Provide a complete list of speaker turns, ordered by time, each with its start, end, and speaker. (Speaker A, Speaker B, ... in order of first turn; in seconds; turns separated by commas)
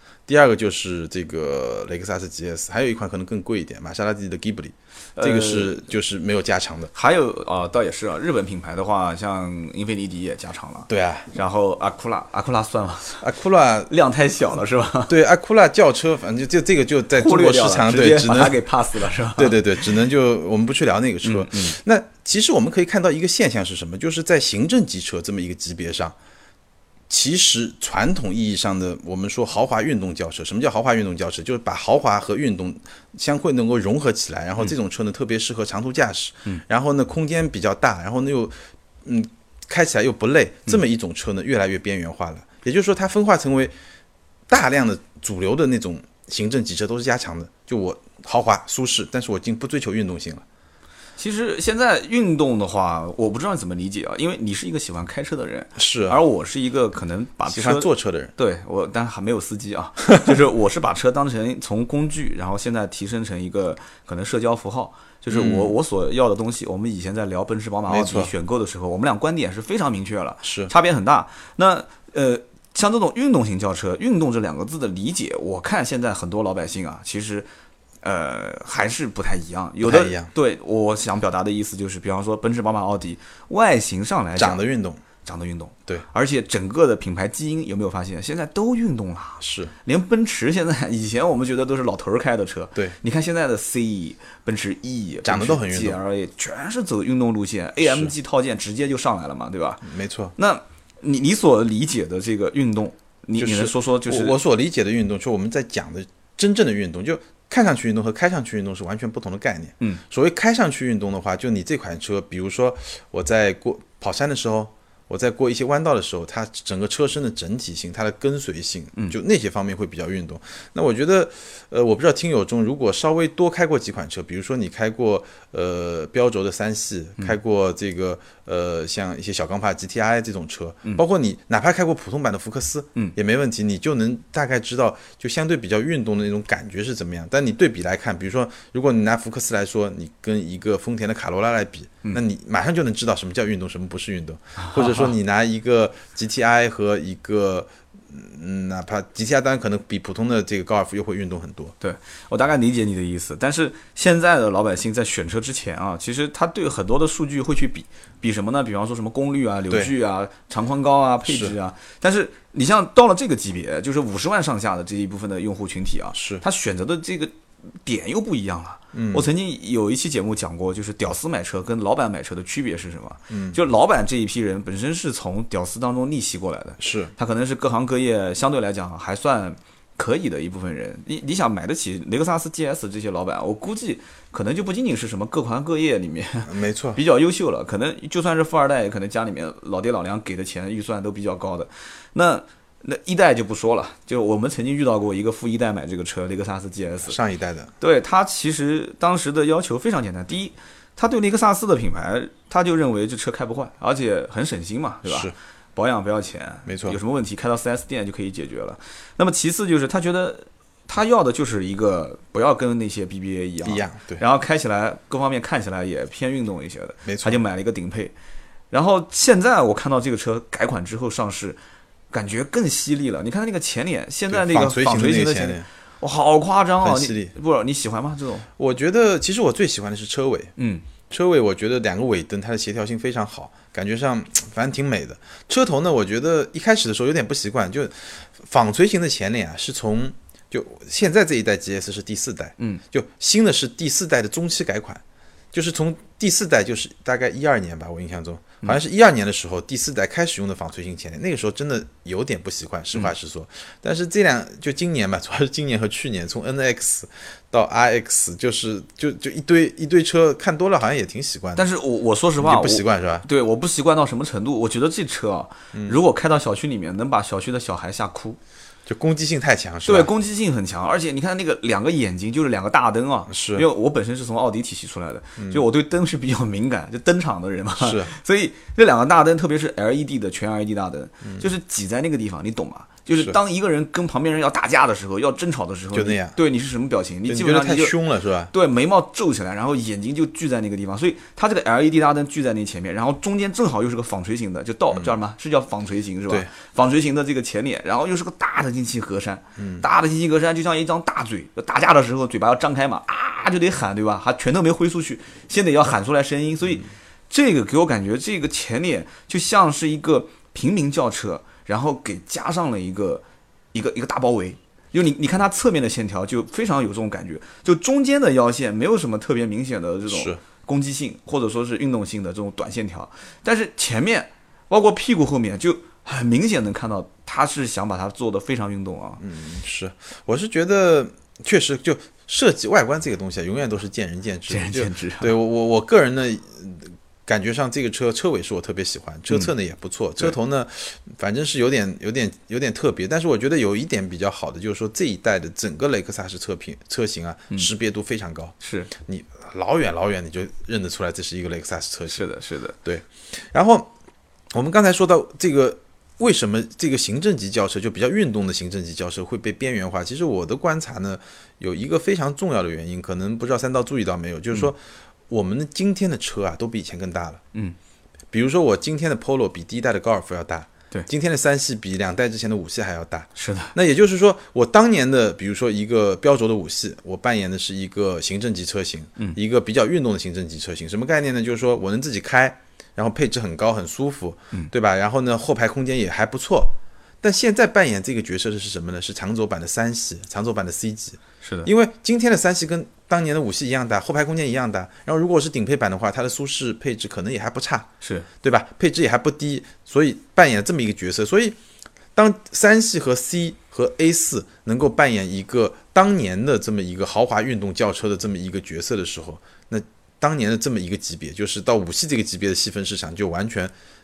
Speaker A: 0.3-6.9, Speaker B: 5.2-5.8, Speaker B: 6.9-13.2, Speaker A: 10.9-11.3, Speaker A: 13.2-13.9, Speaker B: 13.9-15.1, Speaker A: 15.1-18.6, Speaker B: 17.1-19.8, Speaker A: 19.4-26.1, Speaker B: 21.2-21.8, Speaker A: 27.1-38.5, Speaker A: 39.0-43.7, Speaker A: 44.5-50.4, Speaker B: 51.2-77.5, Speaker A: 55.8-56.2, Speaker A: 57.5-58.3, Speaker A: 65.3-65.7, Speaker A: 67.9-68.3, Speaker A: 70.4-70.7, Speaker B: 78.0-84.6, Speaker A: 79.8-80.3, Speaker A: 84.3-85.0, Speaker B: 85.2-104.4, Speaker A: 89.4-89.7, Speaker A: 95.2-96.0, Speaker A: 97.8-98.1, Speaker A: 99.8-100.3, Speaker A: 103.4-151.7, Speaker B: 144.6-145.1, Speaker B: 151.8-167.3, Speaker A: 161.2-161.5, Speaker A: 166.1-166.4, Speaker B: 167.8-197.2, Speaker A: 168.9-169.3, Speaker A: 173.3-173.6, Speaker A: 176.8-177.1, Speaker A: 186.5-187.0, Speaker A: 197.1-197.7, Speaker B: 197.8-218.1, Speaker A: 205.0-205.3, Speaker A: 206.7-207.0, Speaker A: 213.6-214.2, Speaker A: 217.0-217.4, Speaker B: 218.7-221.6, Speaker B: 222.1-228.5, Speaker A: 224.3-225.7, Speaker A: 226.8-227.3, Speaker A: 228.6-230.5, Speaker B: 230.6-230.8, Speaker A: 231.1-245.0, Speaker A: 245.5-261.6, Speaker B: 261.6-268.4, Speaker A: 262.4-263.2, Speaker A: 265.7-266.0, Speaker A: 268.9-270.1, Speaker B: 269.9-287.9, Speaker A: 273.3-273.6, Speaker A: 275.4-275.6, Speaker A: 277.8-278.1, Speaker A: 285.9-286.4, Speaker A: 287.3-288.5, Speaker B: 288.5-313.2, Speaker A: 299.6-299.9, Speaker B: 313.7-329.2, Speaker A: 320.1-320.4, Speaker A: 329.2-348.5, Speaker B: 334.5-335.4, Speaker B: 348.6-348.9, Speaker A: 349.1-352.2, Speaker B: 352.1-352.8, Speaker A: 352.8-353.9, Speaker A: 354.5-364.8, Speaker A: 365.3-367.4, Speaker A: 368.3-397.9, Speaker B: 373.4-373.7, Speaker B: 391.4-391.7, Speaker B: 398.0-398.3, Speaker A: 398.4-401.6, Speaker A: 402.1-413.7